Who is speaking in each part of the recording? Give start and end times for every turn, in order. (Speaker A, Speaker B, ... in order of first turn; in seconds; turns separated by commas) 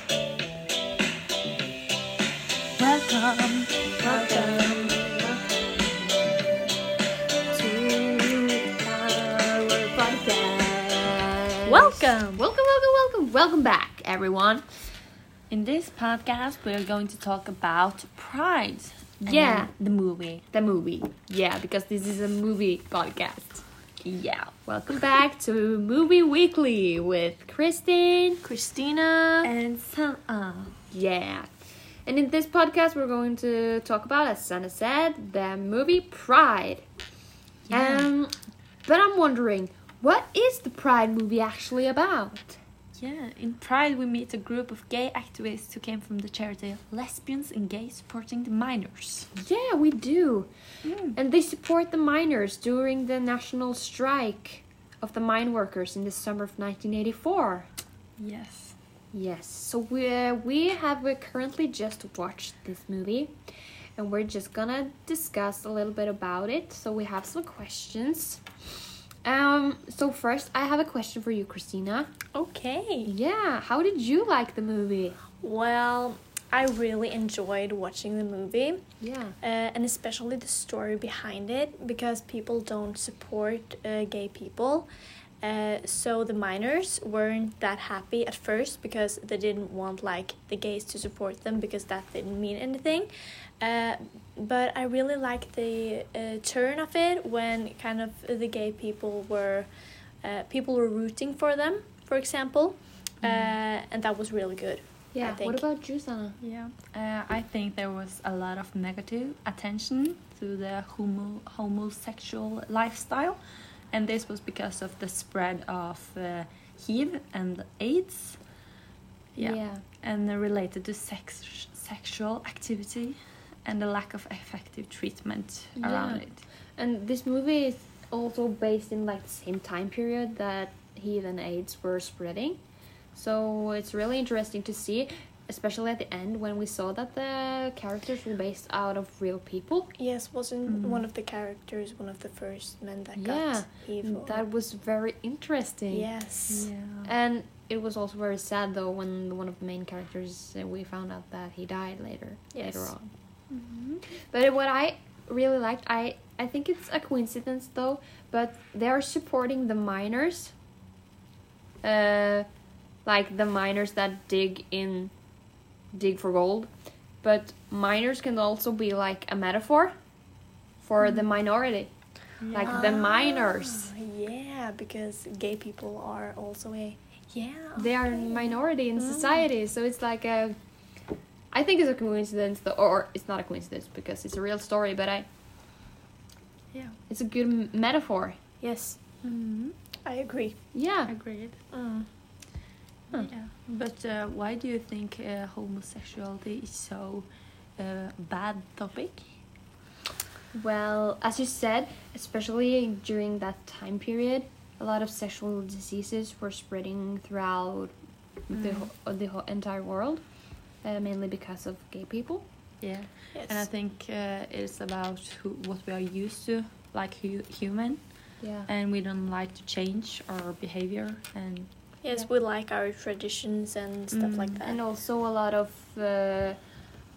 Speaker A: 2.8-3.9, Speaker B: 4.0-5.6, Speaker C: 4.0-5.0, Speaker B: 7.5-14.6, Speaker C: 11.7-12.4, Speaker A: 15.5-20.4, Speaker B: 19.2-19.7, Speaker B: 20.5-23.6, Speaker A: 24.0-24.5, Speaker B: 24.6-28.4, Speaker C: 28.4-29.5, Speaker A: 29.4-30.8, Speaker B: 30.9-31.5, Speaker B: 32.0-36.9, Speaker A: 37.7-38.1, Speaker B: 37.7-42.6, Speaker A: 43.0-49.3, Speaker B: 49.4-50.5, Speaker A: 50.8-51.1, Speaker B: 51.1-57.7, Speaker A: 58.2-58.8, Speaker B: 59.1-63.4, Speaker B: 64.0-68.4, Speaker B: 69.2-72.1, Speaker C: 72.3-73.1, Speaker B: 73.0-75.2, Speaker C: 75.4-78.8, Speaker B: 79.0-79.3, Speaker C: 79.4-84.9, Speaker C: 85.4-99.7, Speaker C: 100.2-105.6, Speaker A: 103.2-103.5, Speaker B: 105.1-106.4, Speaker A: 106.4-113.4, Speaker A: 113.9-118.4, Speaker A: 119.3-126.4, Speaker B: 119.4-119.8, Speaker B: 125.8-132.6, Speaker B: 133.1-139.9, Speaker C: 140.0-144.5, Speaker A: 140.6-141.1, Speaker B: 143.2-146.1, Speaker C: 145.9-146.7, Speaker A: 146.5-147.1, Speaker B: 147.0-153.1, Speaker C: 152.5-152.9, Speaker A: 153.5-154.0, Speaker B: 154.3-160.5, Speaker B: 161.8-162.4, Speaker B: 163.0-165.1, Speaker B: 165.9-166.7, Speaker B: 167.2-169.9, Speaker B: 170.8-173.9, Speaker A: 172.4-173.0, Speaker C: 172.5-179.5, Speaker B: 177.8-180.6, Speaker B: 181.5-185.3, Speaker B: 187.1-188.4, Speaker C: 188.6-189.0, Speaker A: 189.2-189.8, Speaker C: 190.0-190.7, Speaker B: 190.7-191.2, Speaker A: 191.1-191.6, Speaker C: 191.7-192.1, Speaker A: 193.1-199.4, Speaker B: 200.5-207.9, Speaker B: 208.5-212.4, Speaker A: 208.5-208.9, Speaker A: 212.8-221.7, Speaker C: 213.3-213.7, Speaker B: 218.4-218.7, Speaker C: 222.0-224.8, Speaker A: 224.1-224.6, Speaker B: 224.6-226.6